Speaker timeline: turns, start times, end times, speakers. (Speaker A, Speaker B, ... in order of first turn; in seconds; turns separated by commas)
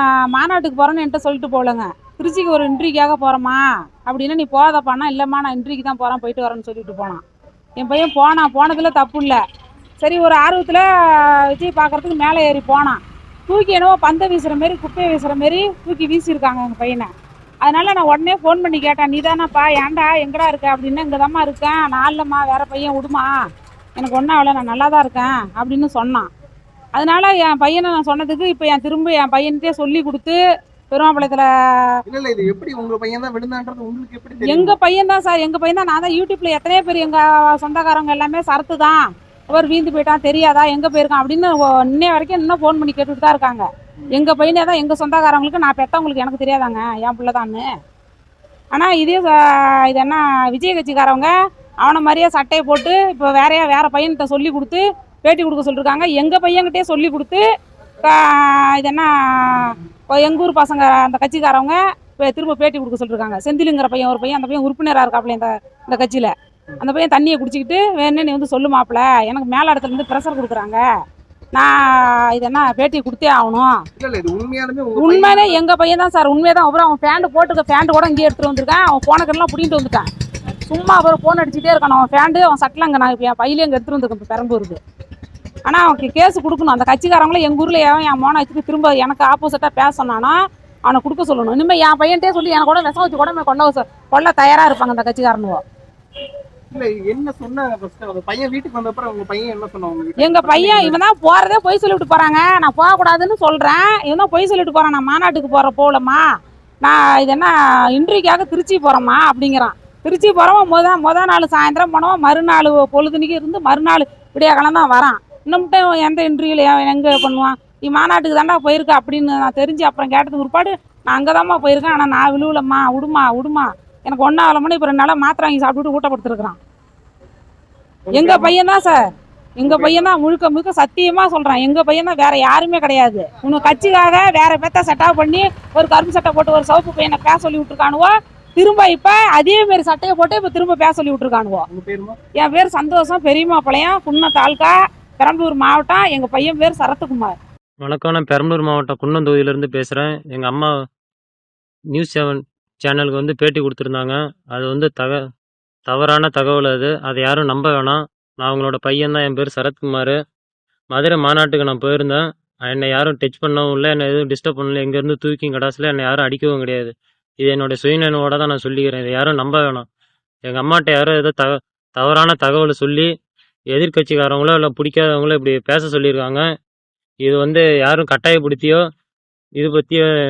Speaker A: 0.3-7.2, Speaker A: 7.8-9.4, Speaker A: 10.0-17.1, Speaker A: 17.6-23.3, Speaker A: 24.0-26.3, Speaker A: 26.9-30.4, Speaker A: 30.9-32.0, Speaker B: 32.1-34.8, Speaker A: 34.5-47.7, Speaker A: 48.7-57.4, Speaker A: 58.0-70.8, Speaker A: 71.5-73.7, Speaker B: 74.0-75.6, Speaker A: 75.0-80.1, Speaker A: 80.7-84.8, Speaker A: 85.7-95.6, Speaker B: 96.7-101.0, Speaker A: 100.2-106.2, Speaker A: 106.8-126.6, Speaker B: 128.1-128.6, Speaker A: 128.1-129.0, Speaker A: 129.6-141.7, Speaker B: 129.7-130.1, Speaker B: 141.7-142.2, Speaker A: 142.4-147.3, Speaker C: 147.8-150.8, Speaker C: 151.9-155.2, Speaker C: 155.9-160.2, Speaker C: 160.9-169.9, Speaker C: 170.5-173.1, Speaker C: 173.7-176.4, Speaker C: 177.2-178.8, Speaker C: 179.6-180.1